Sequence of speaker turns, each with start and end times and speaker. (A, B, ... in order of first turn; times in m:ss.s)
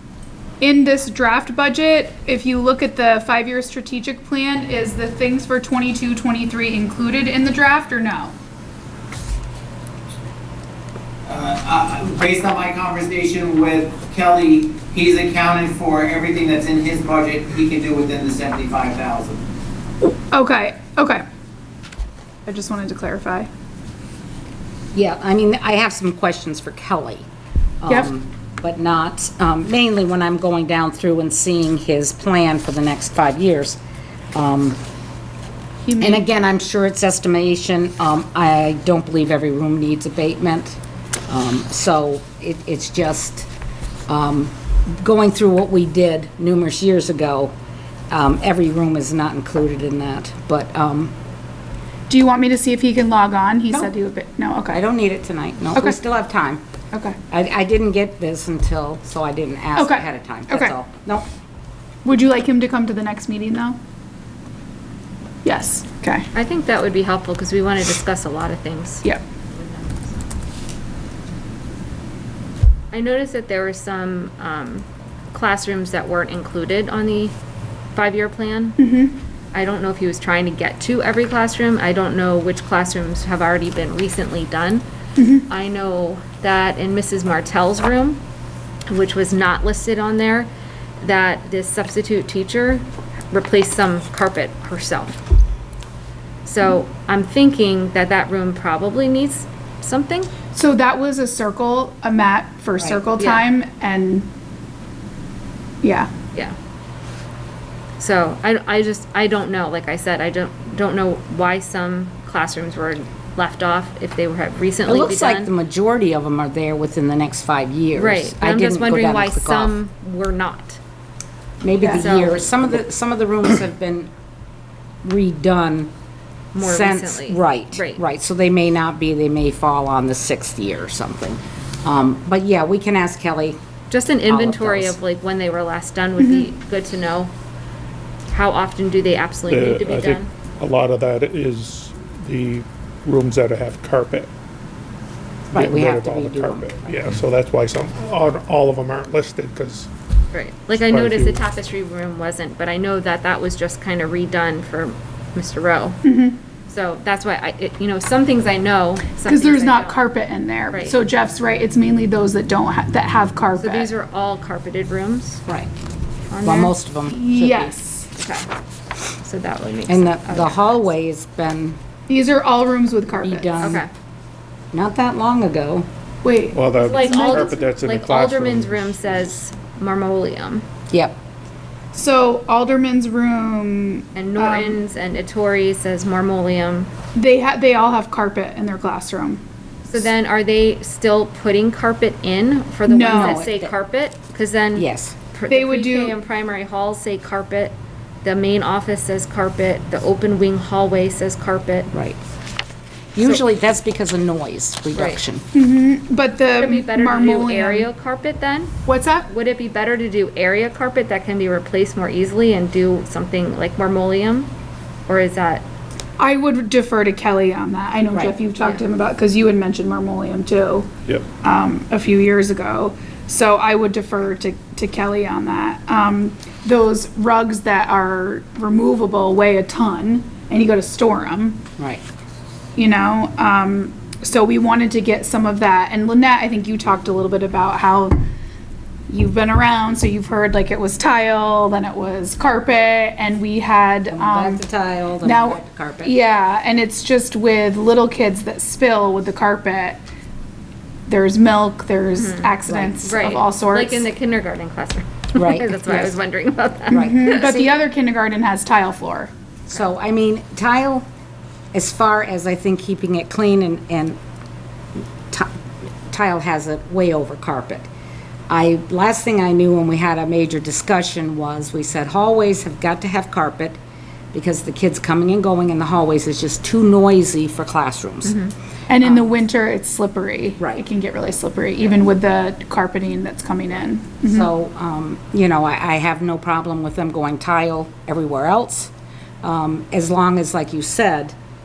0:00.6-0:08.3 A
0:11.2-0:19.4 B
0:20.3-0:21.2 A
0:22.4-0:23.5 A
0:24.9-0:27.2 C
0:27.8-0:33.8 C
0:34.3-0:34.8 C
0:35.8-0:36.2 A
0:36.0-0:43.5 C
0:44.1-0:47.5 C
0:48.1-0:51.1 C
0:52.1-0:54.8 A
0:54.7-0:56.6 C
0:57.3-1:01.2 C
0:59.8-1:00.7 A
1:02.0-1:03.8 A
1:05.4-1:06.3 A
1:06.3-1:10.3 D
1:12.9-1:17.3 D
1:17.9-1:18.8 D
1:18.8-1:19.1 A
1:19.5-1:24.8 D
1:25.2-1:25.4 A
1:25.5-1:28.2 D
1:28.9-1:35.1 D
1:36.4-1:40.3 D
1:40.5-1:44.3 A
1:43.2-1:43.4 D
1:45.8-1:46.1 A
1:48.0-1:55.5 D
1:54.8-1:59.8 C
1:57.9-2:00.8 D
2:01.6-2:04.1 C
2:01.8-2:02.5 D
2:05.0-2:05.9 C
2:06.5-2:08.0 D
2:06.6-2:13.6 C
2:13.9-2:17.3 D
2:14.2-2:15.0 C
2:16.2-2:16.4 A
2:18.3-2:20.3 D
2:19.5-2:24.3 E
2:25.5-2:29.9 E
2:25.5-2:26.9 C
2:30.3-2:36.0 D
2:30.8-2:31.4 E
2:36.0-2:36.4 A
2:36.7-2:40.0 D
2:39.2-2:43.9 A
2:40.7-2:41.0 D
2:43.6-2:45.4 D
2:46.3-2:46.7 D
2:46.4-2:47.8 C
2:47.1-2:48.1 A
2:48.1-2:48.5 D
2:49.2-2:50.9 D
2:49.9-2:51.8 C
2:52.1-2:53.5 A
2:53.2-2:53.8 C
2:53.6-2:53.9 D
2:54.7-2:55.9 C
2:56.2-2:57.6 A
2:56.5-2:59.3 E
2:56.8-3:00.6 D
3:00.9-3:01.2 C
3:01.9-3:04.8 A
3:04.1-3:06.9 D
3:07.1-3:09.4 A
3:09.9-3:21.9 D
3:12.8-3:13.4 A
3:13.1-3:13.7 C
3:14.7-3:15.2 C
3:15.5-3:16.2 A
3:21.9-3:22.2 C
3:23.1-3:25.4 C
3:24.9-3:25.2 D
3:25.5-3:27.9 A
3:26.6-3:28.7 D
3:28.8-3:29.3 A
3:29.3-3:34.5 D
3:35.1-3:35.6 D
3:36.2-3:40.9 A
3:41.4-3:51.6 A
3:51.8-3:52.0 C
3:52.8-3:58.2 A
3:59.1-4:04.6 A
4:04.1-4:06.2 C
4:05.2-4:10.0 A
4:11.1-4:14.1 A
4:12.1-4:17.8 D
4:12.7-4:13.0 C
4:15.4-4:16.2 C
4:16.9-4:19.3 A
4:16.9-4:17.2 C
4:19.7-4:21.0 C
4:21.7-4:24.2 C
4:26.1-4:27.9 C
4:28.5-4:33.8 C
4:34.3-4:38.4 C
4:38.2-4:38.5 D
4:38.9-4:44.5 A
4:39.0-4:39.3 C
4:44.2-4:48.9 C
4:49.4-4:51.3 C